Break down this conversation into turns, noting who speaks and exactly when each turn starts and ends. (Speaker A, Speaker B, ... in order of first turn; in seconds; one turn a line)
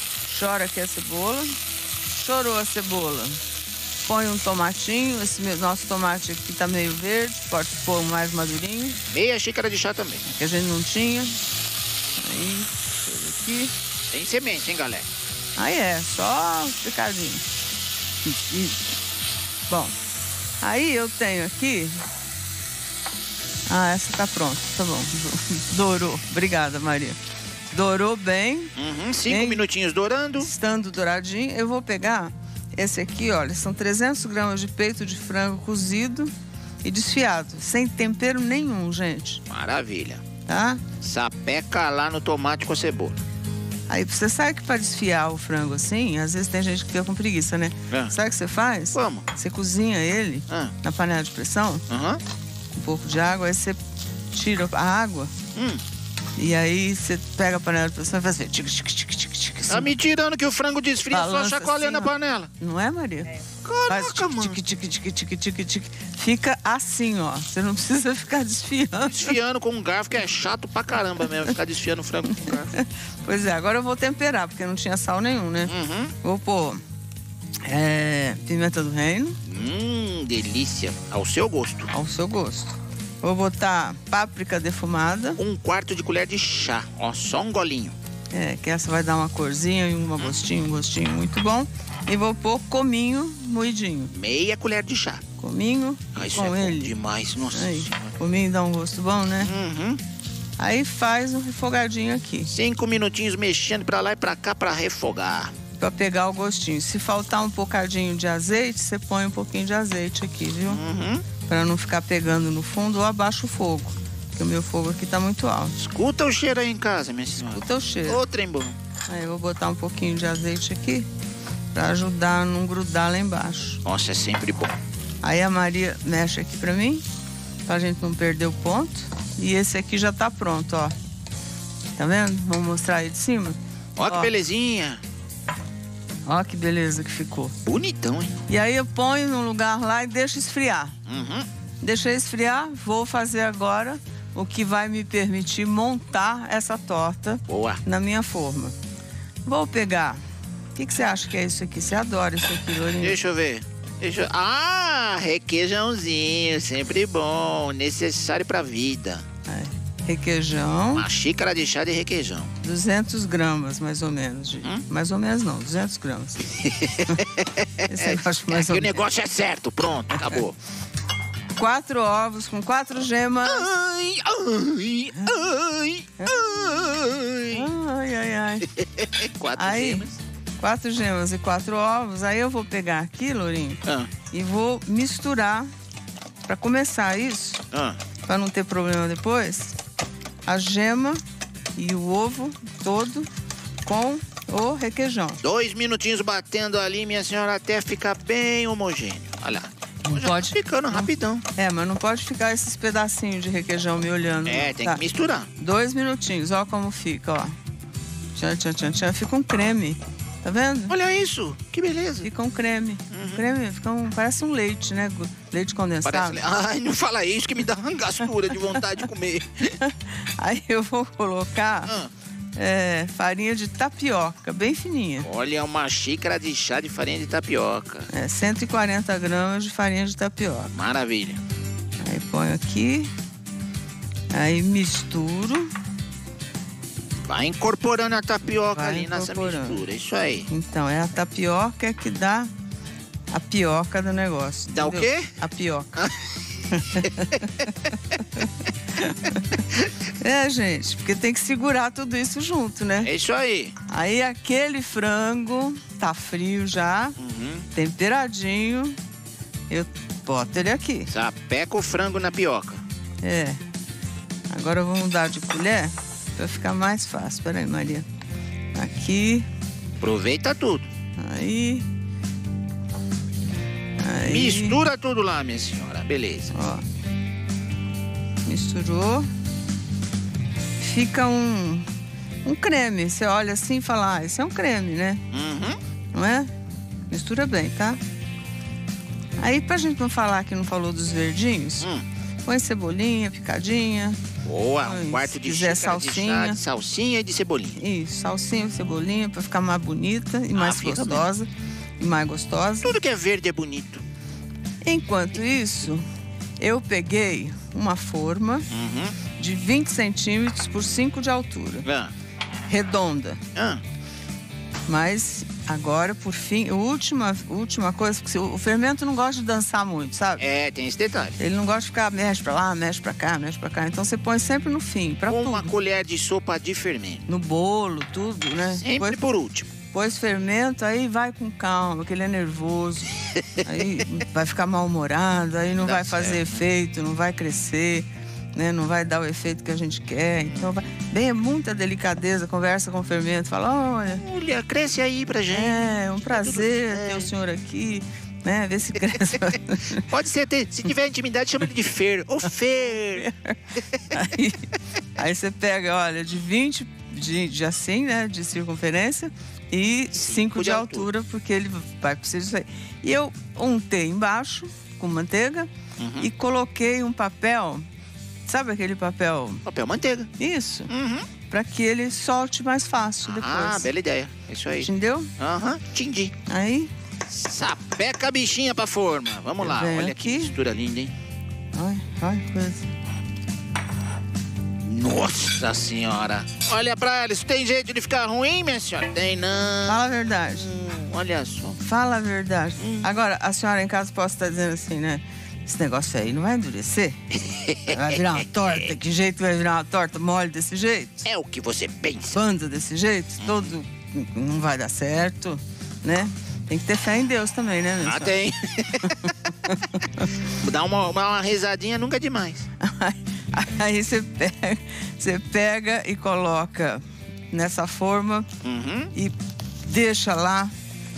Speaker A: 0.2-3.4
Speaker A: 4.0-9.0
Speaker B: 9.1-10.2
Speaker A: 10.2-11.4
Speaker A: 12.2-13.7
Speaker B: 14.1-15.1
Speaker A: 15.6-17.4
Speaker A: 18.2-18.9
Speaker A: 19.7-19.9
Speaker A: 20.6-22.0
Speaker A: 23.7-27.2
Speaker A: 27.7-28.7
Speaker B: 28.8-30.5
Speaker A: 29.3-29.6
Speaker A: 30.4-36.3
Speaker A: 36.8-39.4
Speaker B: 39.5-40.2
Speaker A: 40.5-40.8
Speaker B: 41.0-43.2
Speaker A: 43.9-51.8
Speaker B: 48.9-49.3
Speaker B: 50.5-50.7
Speaker B: 51.9-52.2
Speaker A: 52.7-53.8
Speaker A: 54.3-55.3
Speaker B: 55.5-55.8
Speaker A: 56.4-59.9
Speaker B: 59.7-62.5
Speaker A: 61.1-63.3
Speaker B: 63.6-64.6
Speaker A: 63.9-69.3
Speaker B: 69.0-72.7
Speaker A: 72.5-76.8
Speaker B: 75.7-76.1
Speaker A: 77.6-79.4
Speaker B: 79.4-81.9
Speaker A: 81.9-85.4
Speaker B: 85.4-88.0
Speaker A: 88.3-94.1
Speaker B: 94.1-95.2
Speaker A: 95.4-96.9
Speaker B: 96.1-98.1
Speaker A: 97.5-99.5
Speaker B: 99.4-100.0
Speaker A: 100.6-102.5
Speaker B: 102.5-105.5
Speaker A: 105.8-110.8
Speaker B: 110.7-111.2
Speaker A: 111.5-115.8
Speaker B: 115.8-118.8
Speaker A: 117.4-118.2
Speaker A: 119.1-121.1
Speaker A: 121.7-123.8
Speaker B: 123.8-124.7
Speaker A: 125.2-127.0
Speaker A: 127.7-130.9
Speaker A: 131.9-134.3
Speaker B: 134.0-135.0
Speaker A: 136.2-137.6
Speaker B: 137.7-138.3
Speaker A: 138.5-140.9
Speaker B: 141.1-141.4
Speaker A: 141.8-148.7
Speaker B: 147.5-147.8
Speaker A: 149.4-150.2
Speaker A: 150.7-153.2
Speaker B: 153.0-159.2
Speaker A: 159.5-161.1
Speaker B: 160.9-162.5
Speaker A: 162.6-167.2
Speaker B: 166.5-170.6
Speaker A: 167.9-169.0
Speaker A: 171.6-173.7
Speaker B: 173.4-177.7
Speaker A: 176.2-176.7
Speaker A: 177.5-178.7
Speaker B: 178.8-180.2
Speaker A: 179.5-180.1
Speaker A: 180.6-185.7
Speaker B: 183.8-184.1
Speaker A: 186.4-187.6
Speaker B: 187.7-188.0
Speaker A: 188.2-189.8
Speaker A: 190.4-191.2
Speaker A: 191.7-193.3
Speaker A: 193.8-195.4
Speaker B: 195.4-201.4
Speaker A: 200.0-205.0
Speaker B: 204.4-205.5
Speaker A: 205.6-207.5
Speaker A: 208.3-210.9
Speaker B: 210.9-212.3
Speaker A: 212.2-216.4
Speaker B: 213.1-213.4
Speaker B: 216.0-219.8
Speaker A: 219.8-221.9
Speaker A: 222.6-225.3
Speaker B: 225.2-228.1
Speaker A: 228.1-230.7
Speaker B: 230.7-231.4
Speaker A: 232.0-233.1
Speaker A: 234.3-235.7
Speaker B: 237.2-240.5
Speaker A: 238.4-239.8
Speaker A: 240.5-242.5
Speaker A: 243.3-246.1
Speaker B: 244.7-245.3
Speaker A: 246.7-249.6
Speaker B: 247.0-247.4
Speaker A: 250.2-253.1
Speaker B: 253.0-253.7
Speaker A: 253.9-257.2
Speaker B: 257.2-257.7
Speaker A: 257.7-259.0
Speaker A: 259.7-261.1
Speaker B: 261.1-262.8
Speaker A: 263.2-263.6
Speaker A: 264.5-268.1
Speaker A: 268.7-269.5
Speaker B: 270.0-270.9
Speaker A: 271.2-271.9
Speaker A: 274.0-274.8
Speaker B: 274.2-276.5
Speaker A: 276.5-276.8
Speaker A: 278.4-279.3
Speaker A: 280.8-281.9
Speaker A: 282.4-285.2
Speaker B: 285.3-285.8
Speaker A: 286.1-286.5
Speaker A: 287.1-288.0
Speaker A: 289.4-291.9
Speaker A: 292.4-294.2
Speaker B: 294.4-297.8
Speaker A: 294.8-296.6
Speaker A: 297.8-303.0
Speaker B: 300.5-301.2
Speaker B: 302.8-304.0
Speaker A: 304.8-306.0
Speaker A: 306.6-308.7
Speaker B: 308.7-309.1
Speaker A: 309.4-311.9
Speaker B: 311.8-312.1
Speaker A: 312.7-313.4
Speaker B: 313.5-313.8
Speaker A: 314.9-320.4
Speaker B: 320.4-321.4
Speaker A: 321.4-325.7
Speaker B: 325.3-327.2
Speaker A: 327.3-329.2
Speaker B: 328.7-329.7
Speaker A: 329.9-344.2
Speaker B: 335.8-336.5
Speaker B: 344.2-347.3
Speaker A: 345.5-350.1
Speaker B: 350.0-353.3
Speaker A: 353.2-353.6
Speaker A: 354.1-367.8
Speaker B: 360.1-361.1
Speaker B: 366.0-366.3
Speaker A: 368.4-369.6
Speaker B: 369.6-370.3
Speaker A: 370.4-370.9
Speaker B: 370.9-371.2
Speaker A: 371.5-373.9
Speaker B: 373.2-376.3
Speaker A: 374.8-375.3
Speaker A: 376.5-376.9
Speaker B: 377.3-381.1
Speaker A: 379.6-380.5
Speaker A: 381.7-382.9
Speaker B: 384.8-391.8
Speaker A: 389.9-390.7
Speaker A: 391.8-397.2
Speaker B: 392.8-393.1
Speaker B: 397.4-398.7
Speaker A: 397.9-401.2
Speaker B: 401.2-402.4
Speaker A: 402.3-408.4
Speaker B: 403.4-403.7
Speaker B: 408.0-409.3
Speaker A: 409.1-410.3
Speaker B: 410.4-412.6
Speaker A: 412.8-418.5
Speaker B: 418.6-419.1
Speaker A: 419.1-420.7